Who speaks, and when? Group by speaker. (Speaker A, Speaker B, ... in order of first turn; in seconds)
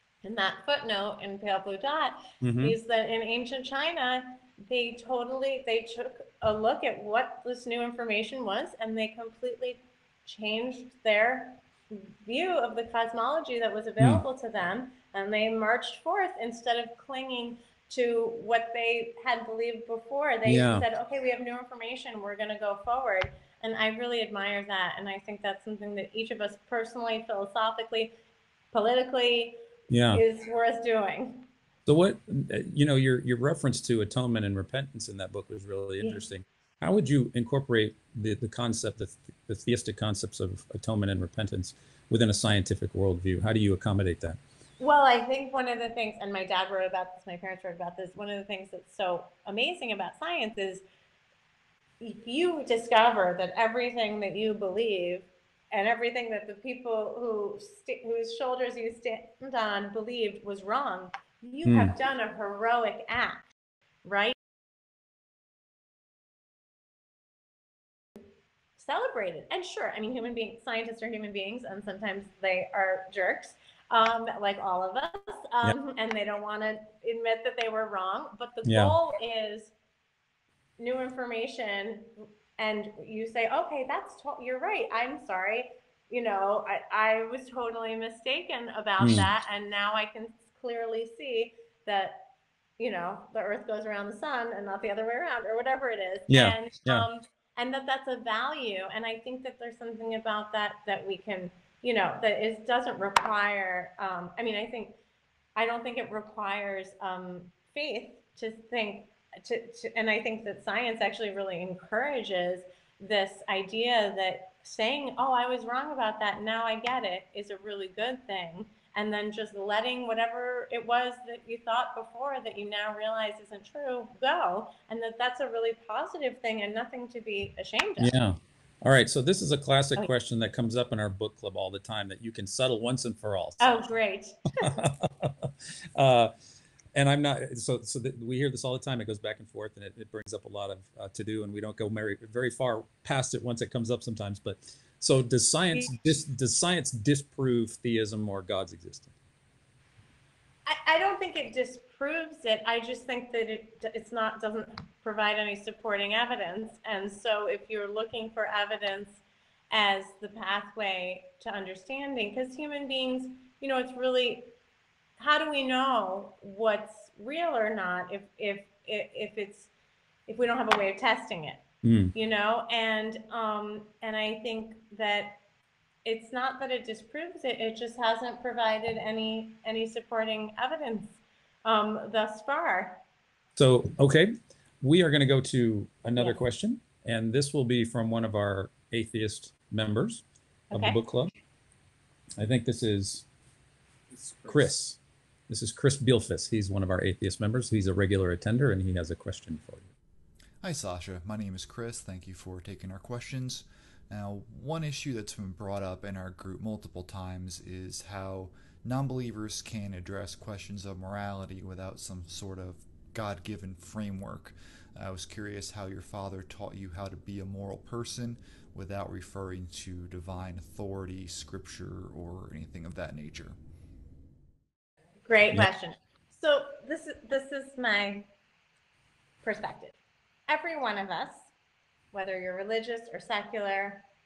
Speaker A: 0.2-28.1, 28.7-29.6, 30.1-31.5, 44.8-50.8, 52.0-63.5, 64.0-64.4, 68.8-79.7, 80.8-92.2, 92.8-105.0, 105.6-128.2, 133.6-134.8, 150.7-164.5, 165.2-169.7, 170.3-175.4, 176.1-183.0, 190.7-191.0, 225.3-228.3, 229.4-231.5, 232.1-234.1
Speaker B: 2.4-2.8, 20.5-20.9, 29.9-30.2, 31.9-44.4, 61.7-62.0, 78.7-78.9, 89.0-89.3, 96.3-97.1, 128.0-133.9, 134.6-136.3, 136.9-149.1, 171.8-172.1, 183.6-191.3, 192.4-193.3, 194.4-199.9
Speaker C: 200.6-223.6